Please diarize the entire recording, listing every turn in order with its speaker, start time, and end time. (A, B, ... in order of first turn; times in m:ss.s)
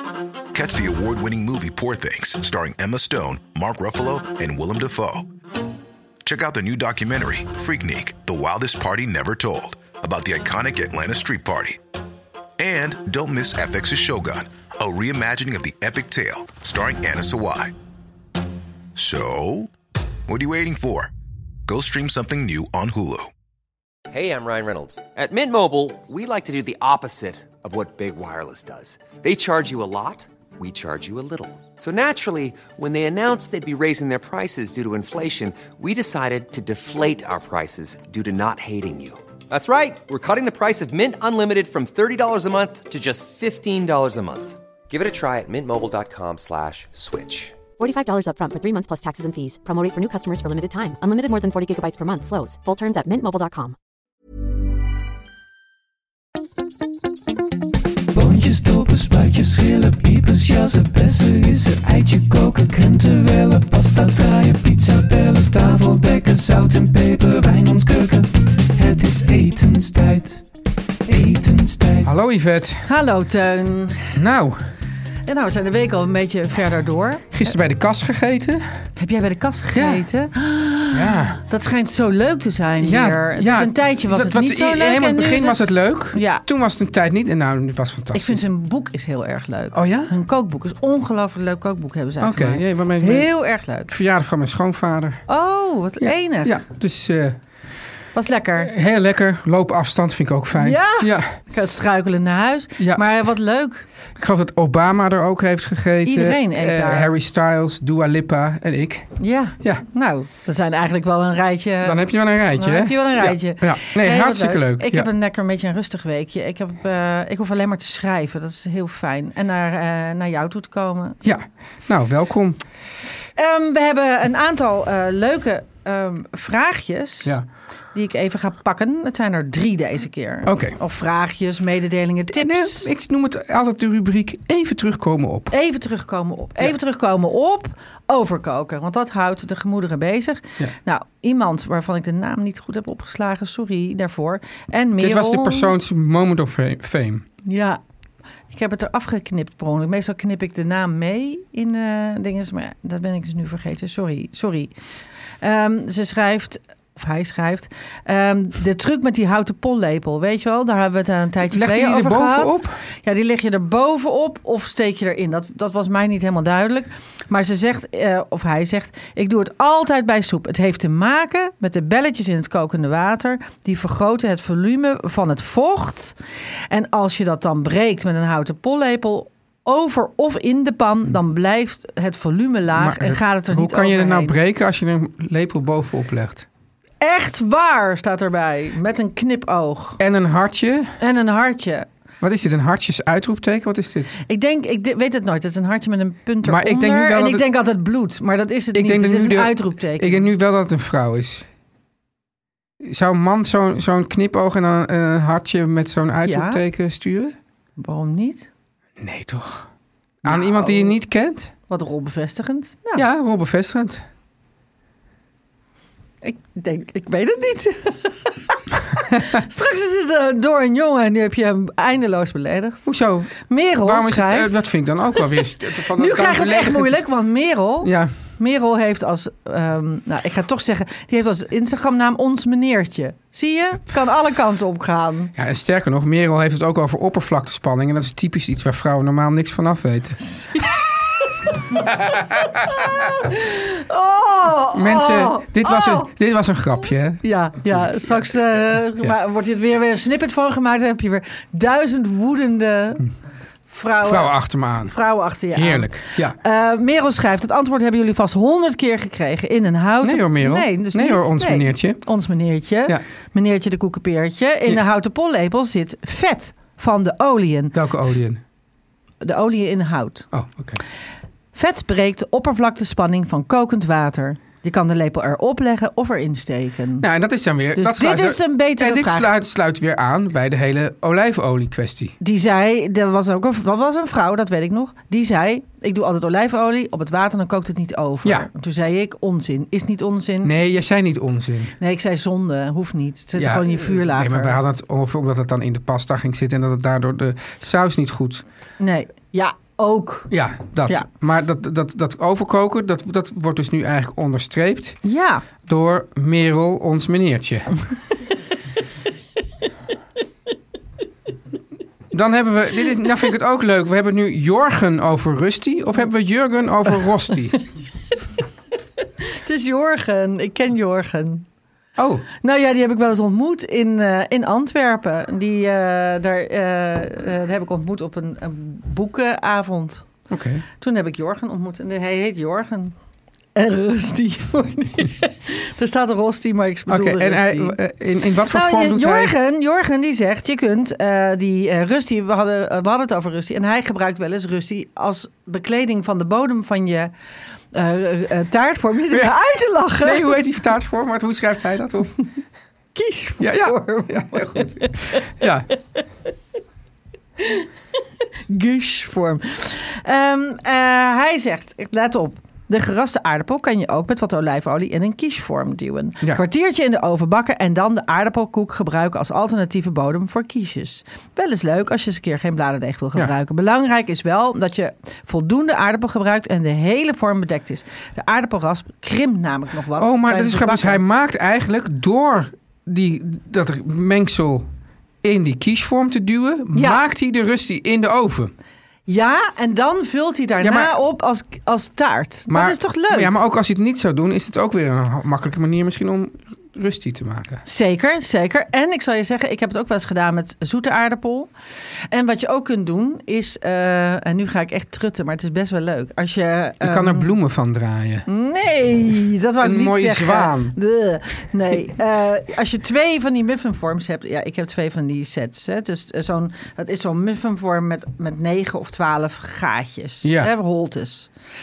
0:00.5-0:05.3 A
0:06.2-0:11.8 A
0:12.6-0:17.7 A
0:19.0-0:19.7 A
0:20.3-0:21.1 A
0:21.7-0:23.3 A
0:24.1-0:47.6 B
0:47.8-0:53.8 C
0:58.1-1:10.4 D
1:11.0-1:12.0 D
1:12.0-1:12.9 E
1:12.8-1:14.2 F
1:14.1-1:14.6 E
1:15.2-1:17.3 F
1:17.3-1:18.6 E
1:19.0-1:26.4 F
1:19.7-1:20.0 E
1:20.9-1:21.4 E
1:22.8-1:28.4 E
1:28.1-1:33.9 F
1:29.7-1:30.1 E
1:32.2-1:33.3 E
1:33.9-1:35.2 E
1:35.3-1:36.6 F
1:36.0-1:37.4 E
1:38.1-1:38.7 F
1:38.6-1:41.3 E
1:40.6-1:43.8 F
1:42.8-1:43.0 E
1:44.2-1:49.8 E
1:46.0-1:47.1 F
1:49.2-1:52.0 F
1:51.8-1:55.1 E
1:52.6-2:01.2 F
2:01.2-2:02.6 E
2:03.4-2:07.4 F
2:07.9-2:12.9 F
2:10.4-2:10.8 E
2:12.4-2:15.5 E
2:15.5-2:25.7 F
2:25.0-2:27.2 E
2:27.4-2:27.8 F
2:28.5-2:34.7 F
2:35.4-2:56.2 F
2:41.5-2:42.8 E
2:56.7-3:04.3 F
3:02.7-3:06.5 E
3:07.0-3:10.0 F
3:10.0-3:11.0 E
3:11.0-3:11.9 F
3:12.2-3:14.2 E
3:14.2-3:20.3 F
3:16.4-3:17.4 E
3:18.7-3:21.4 E
3:22.8-3:27.3 E
3:26.2-3:26.6 F
3:27.8-3:28.5 F
3:29.0-3:29.7 E
3:30.2-3:31.5 E
3:30.2-3:31.0 F
3:31.7-3:33.0 F
3:33.0-3:34.0 E
3:36.2-3:42.9 F
3:42.8-3:47.0 E
3:43.4-3:55.3 F
3:47.8-3:48.1 E
3:55.3-4:00.2 E
4:00.2-4:01.5 F
4:01.9-4:02.3 E
4:02.3-4:06.1 F
4:04.7-4:08.3 E
4:07.2-4:13.0 F
4:13.7-4:14.4 F
4:14.0-4:14.9 E
4:14.9-4:27.8 F
4:15.5-4:16.4 E
4:20.0-4:22.0 E
4:27.7-4:28.4 E
4:29.2-4:30.3 F
4:30.3-4:30.8 E
4:31.5-4:37.0 F
4:37.0-4:42.1 E
4:37.8-4:39.3 F
4:42.2-4:50.5 F
4:50.4-4:51.8 E
4:51.8-4:54.6 F
4:53.4-4:58.4 E
4:58.8-5:00.3 F
5:00.3-5:05.0 E
5:05.0-5:05.4 F
5:05.6-5:07.8 E
5:12.1-5:17.6 E
5:19.2-5:21.4 F
5:22.0-5:22.2 E
5:22.4-5:30.1 F
5:30.3-5:30.6 E
5:30.8-5:32.9 F
5:33.5-5:37.8 F
5:36.9-5:39.3 E
5:38.4-5:47.1 F
5:47.7-5:50.3 F
5:49.1-5:49.3 E
5:50.0-5:52.2 E
5:52.9-5:55.4 F
5:53.4-5:55.7 E
5:57.4-5:57.7 F
5:58.5-6:21.0 F
6:20.0-6:24.7 E
6:25.2-6:28.5 E
6:26.7-6:27.0 F
6:29.1-6:33.3 F
6:30.6-6:30.9 E
6:32.5-6:37.6 E
6:37.6-6:41.5 F
6:42.1-6:47.3 F
6:46.8-6:48.2 E
6:48.3-7:01.3 F
6:49.6-6:50.8 E
7:00.2-7:00.5 E